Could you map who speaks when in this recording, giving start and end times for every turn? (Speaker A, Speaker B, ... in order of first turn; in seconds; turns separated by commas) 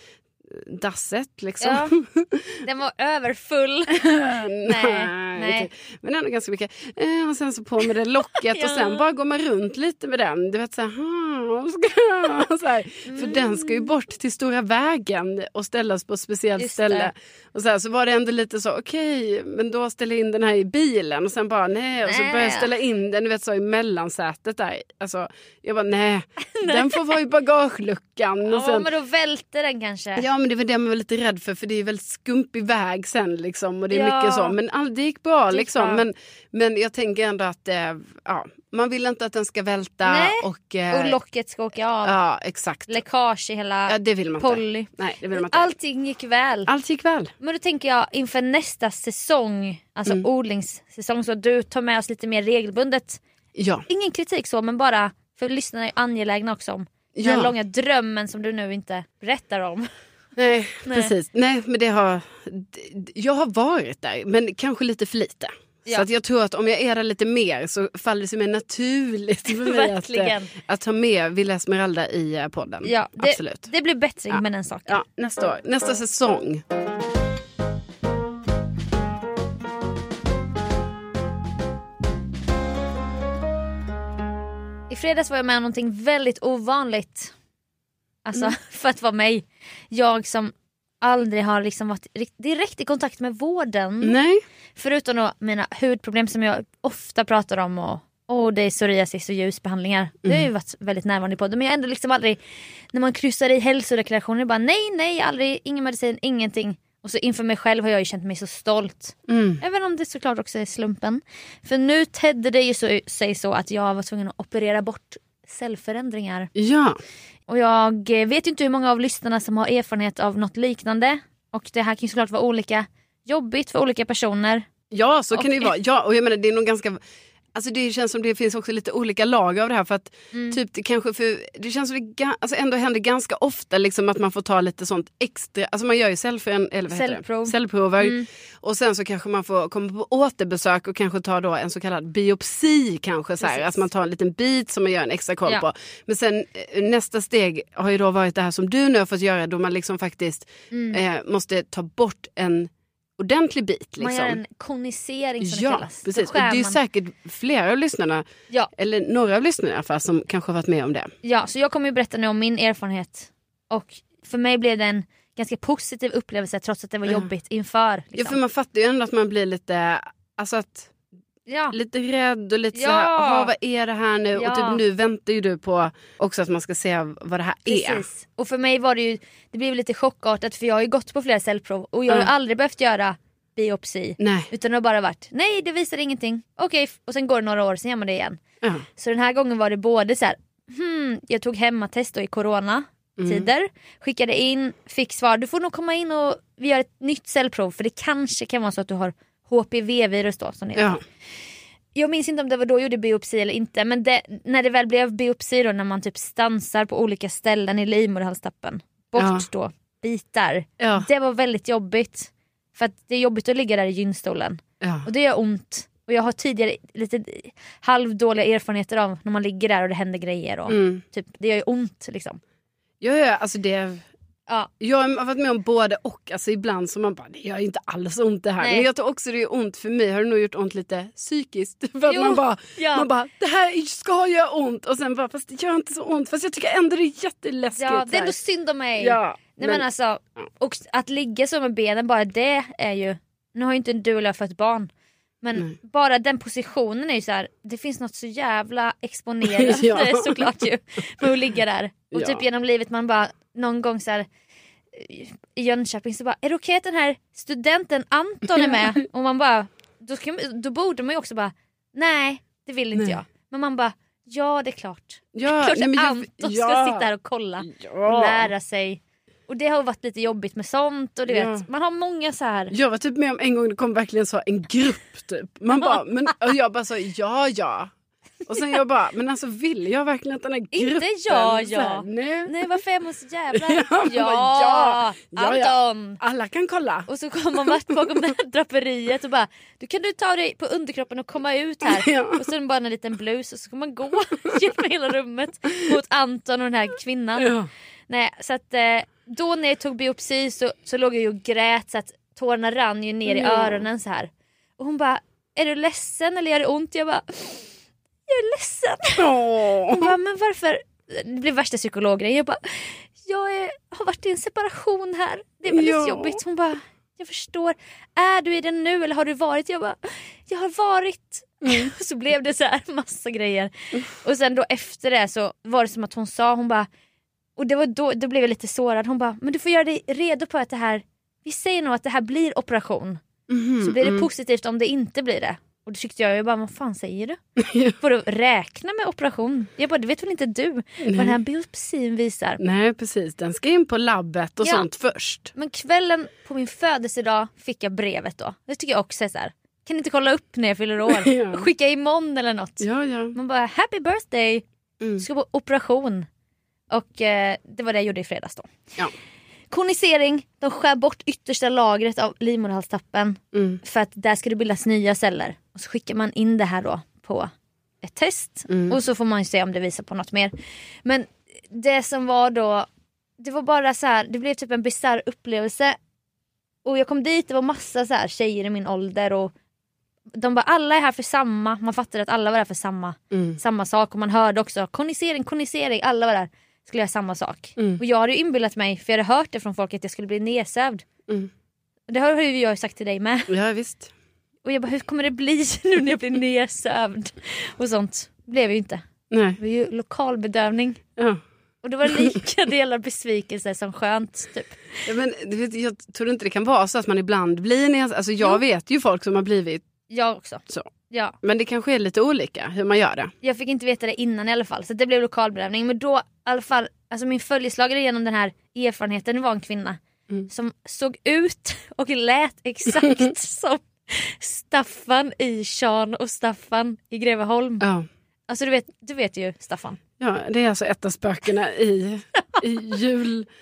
Speaker A: 0.5-2.6, Speaker B: 1.6-1.9, Speaker B: 2.6-4.1, Speaker A: 4.0-28.9, Speaker B: 4.6-5.7, Speaker B: 8.5-9.1, Speaker B: 13.1-13.9, Speaker B: 16.6-17.1, Speaker B: 22.1-22.7, Speaker B: 26.5-27.2, Speaker B: 28.5-30.2, Speaker A: 30.2-41.2, Speaker B: 33.9-34.6, Speaker B: 35.5-36.0, Speaker B: 40.0-42.2, Speaker A: 42.0-43.0, Speaker B: 42.9-46.7, Speaker A: 43.9-45.7, Speaker A: 46.7-47.3, Speaker B: 47.4-53.2, Speaker A: 53.5-53.9, Speaker B: 53.9-59.9, Speaker A: 57.1-57.5, Speaker A: 60.4-73.7, Speaker B: 60.9-61.1, Speaker B: 69.5-70.5, Speaker B: 72.8-75.0, Speaker A: 74.3-76.6, Speaker B: 84.9-87.3, Speaker B: 88.2-94.2, Speaker A: 94.0-94.4, Speaker B: 94.8-102.4, Speaker B: 102.9-116.5, Speaker A: 109.3-109.6, Speaker A: 116.6-117.0, Speaker B: 117.5-124.7, Speaker A: 124.9-127.0, Speaker B: 125.3-125.7, Speaker A: 127.5-154.4, Speaker B: 130.3-130.6, Speaker B: 136.9-138.3, Speaker B: 143.4-143.8, Speaker B: 150.7-151.0, Speaker B: 154.0-156.8, Speaker A: 155.4-158.2, Speaker A: 158.8-161.1, Speaker B: 161.2-168.4, Speaker A: 168.2-170.9, Speaker B: 171.5-171.8, Speaker A: 171.7-178.1, Speaker B: 172.7-173.5, Speaker B: 174.3-174.8, Speaker B: 177.7-188.4, Speaker A: 184.2-184.5, Speaker B: 189.0-201.0, Speaker A: 193.2-193.5, Speaker A: 200.8-201.0, Speaker B: 201.9-222.4, Speaker A: 209.2-209.5, Speaker A: 210.8-211.1, Speaker A: 214.8-215.1, Speaker A: 220.7-221.0, Speaker A: 223.0-224.1, Speaker A: 224.8-238.4, Speaker B: 228.6-228.9, Speaker B: 232.1-233.1, Speaker B: 237.8-244.9, Speaker A: 239.0-239.8, Speaker B: 245.4-254.3, Speaker A: 249.4-250.5, Speaker A: 252.1-252.4, Speaker B: 254.9-272.7, Speaker A: 258.6-258.9, Speaker A: 265.3-267.1, Speaker A: 267.6-268.5, Speaker A: 271.3-271.7, Speaker A: 272.7-277.9, Speaker A: 278.5-282.6, Speaker B: 280.7-286.2, Speaker A: 283.5-287.1, Speaker B: 287.1-297.5, Speaker A: 287.6-288.0, Speaker A: 291.8-292.4, Speaker A: 297.4-297.7, Speaker B: 298.1-307.7, Speaker A: 303.3-303.9, Speaker B: 308.3-309.3, Speaker A: 309.2-310.1, Speaker B: 309.9-326.9, Speaker A: 315.7-316.4, Speaker A: 321.6-321.9, Speaker B: 327.6-333.2, Speaker A: 333.5-334.3, Speaker B: 333.8-337.4, Speaker A: 337.6-338.0, Speaker B: 338.0-342.6, Speaker A: 341.0-341.4, Speaker A: 342.6-345.5, Speaker B: 345.6-354.6, Speaker A: 351.1-351.7, Speaker A: 352.8-353.4, Speaker A: 355.0-355.3, Speaker B: 355.2-356.3, Speaker B: 356.9-358.7, Speaker B: 359.7-367.5, Speaker A: 363.5-363.8, Speaker B: 368.0-372.9, Speaker A: 368.7-369.0, Speaker B: 373.4-376.0, Speaker B: 376.9-379.5, Speaker B: 380.4-391.1, Speaker A: 383.3-383.6, Speaker B: 392.1-393.5, Speaker A: 393.5-394.1, Speaker B: 394.6-399.1, Speaker A: 399.3-399.6, Speaker B: 399.6-401.0, Speaker B: 401.8-405.1, Speaker A: 405.1-409.8, Speaker B: 410.1-411.4, Speaker A: 411.4-413.3, Speaker B: 413.4-427.9, Speaker A: 427.8-428.1, Speaker B: 428.5-430.0, Speaker A: 430.2-433.5